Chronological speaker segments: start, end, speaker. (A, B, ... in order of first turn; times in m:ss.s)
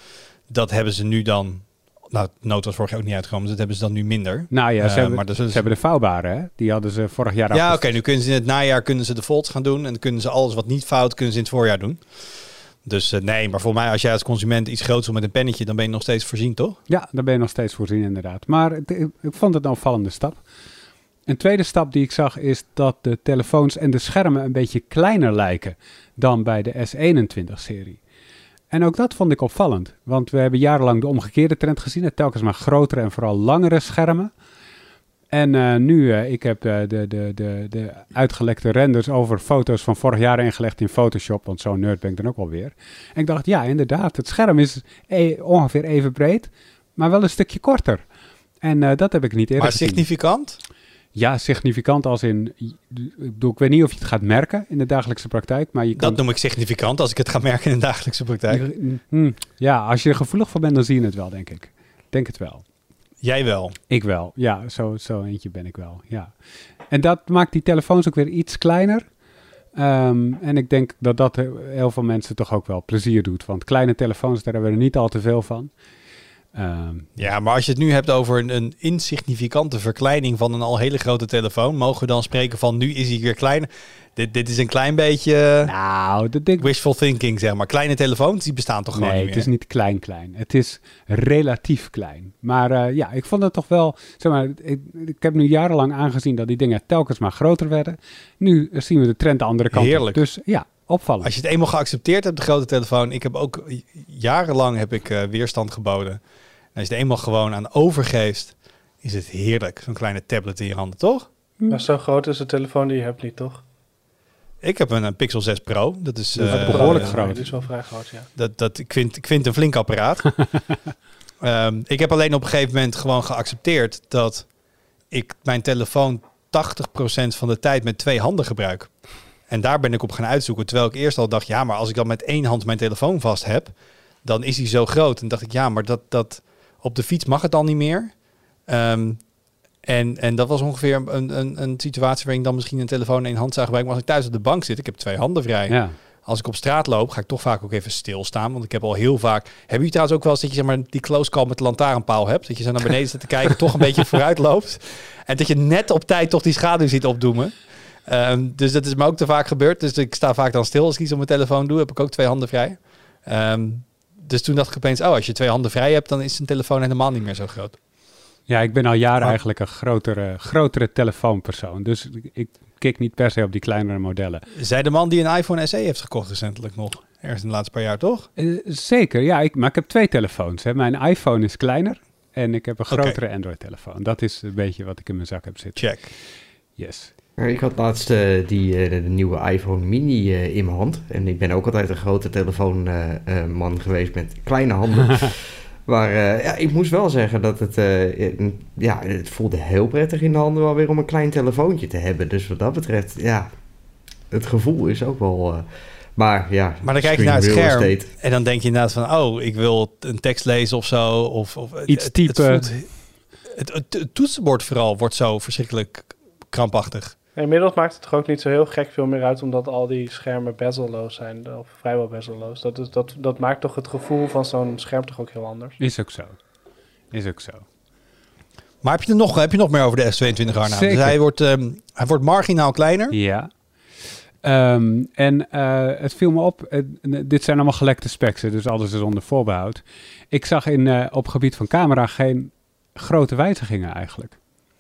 0:00.5-0:05.7 A
0:04.5-0:07.9 B
0:07.5-0:16.8 A
0:16.9-0:20.4 B
0:21.3-0:28.0 B
0:28.7-0:34.3 B
0:35.3-0:48.0 B
0:48.6-0:50.1 B
0:49.6-0:50.6 A
0:51.1-0:56.2 B
0:55.9-0:58.7 A
0:58.5-1:02.6 B
1:03.2-1:03.8 A
1:03.9-1:06.4 B
1:06.9-1:09.1 B
1:09.8-1:15.7 B
1:16.5-1:17.1 B
1:17.2-1:25.7 A
1:25.6-1:26.7 B
1:26.6-1:29.5 A
1:29.0-1:41.3 B
1:39.7-1:40.2 A
1:41.2-1:46.2 A
1:46.7-1:51.3 A
1:51.6-1:51.8 B
1:51.7-1:53.6 C
1:54.6-1:57.4 A
1:56.4-1:57.4 B
1:56.4-1:58.3 C
1:58.4-2:00.5 A
2:01.4-2:04.5 A
2:05.1-2:09.0 A
2:09.5-2:19.3 A
2:19.8-2:47.8 A
2:25.7-2:26.0 B
2:48.5-2:54.5 B
2:54.5-2:58.3 A
2:58.4-3:06.1 B
3:02.9-3:03.2 A
3:05.8-3:06.1 A
3:06.8-3:07.1 B
3:07.4-3:23.5 D
3:24.3-3:25.6 D
3:26.2-3:28.1 D
3:26.8-3:37.2 A
3:31.9-3:33.0 B
3:37.4-3:45.8 C
3:45.8-3:46.5 B
3:47.1-3:47.6 B
3:48.8-3:53.2 A
3:50.6-3:51.1 B
3:53.1-3:53.7 B
3:54.4-4:04.4 B